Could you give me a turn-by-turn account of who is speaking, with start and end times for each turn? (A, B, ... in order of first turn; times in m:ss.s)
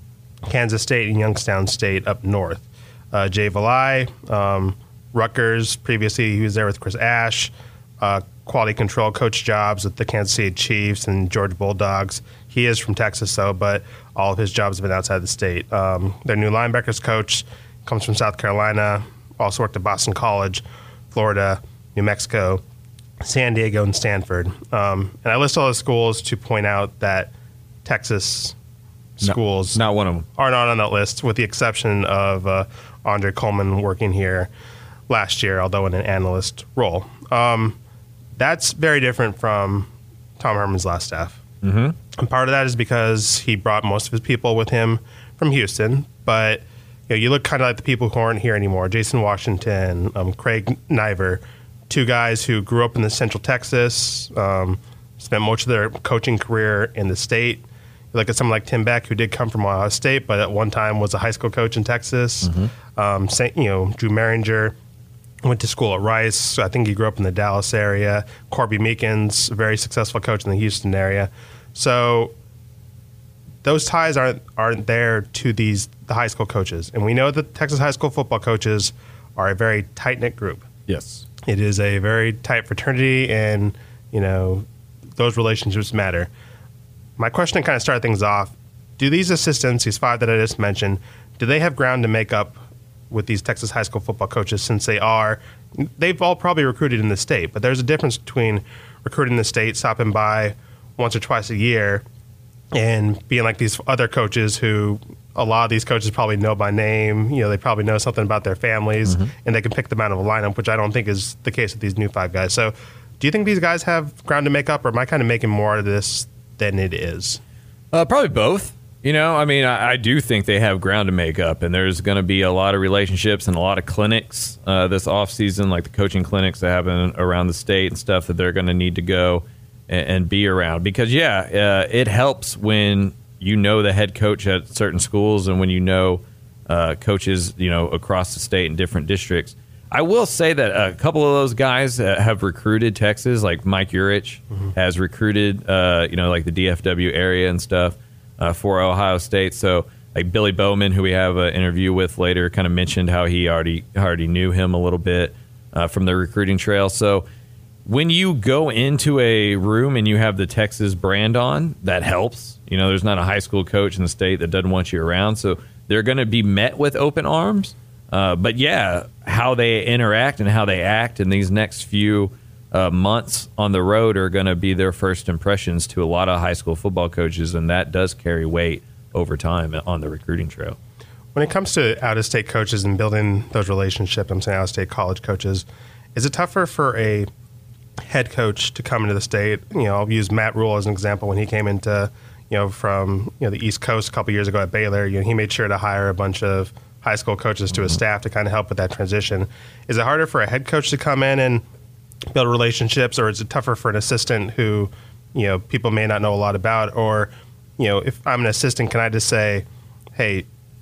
0:00.5-0:22.6 A
0:23.2-0:27.3 A
0:27.8-0:28.5 A
0:29.2-0:29.8 A
0:29.2-0:30.3 B
0:30.4-0:34.5 A
0:35.1-0:37.8 A
0:38.4-0:41.4 A
0:41.6-0:42.0 B
0:42.1-1:04.7 A
1:02.4-1:02.7 B
1:05.4-1:12.3 A
1:13.6-1:20.6 A
1:20.9-1:21.2 B
1:21.4-1:24.6 A
1:25.2-1:26.3 A
1:27.2-1:32.6 A
1:33.1-1:42.0 A
1:42.7-1:57.4 A
1:49.0-1:49.3 B
1:57.9-2:37.2 B
2:37.8-3:00.8 B
3:01.3-3:07.3 A
3:08.1-3:21.6 A
3:22.3-3:30.4 A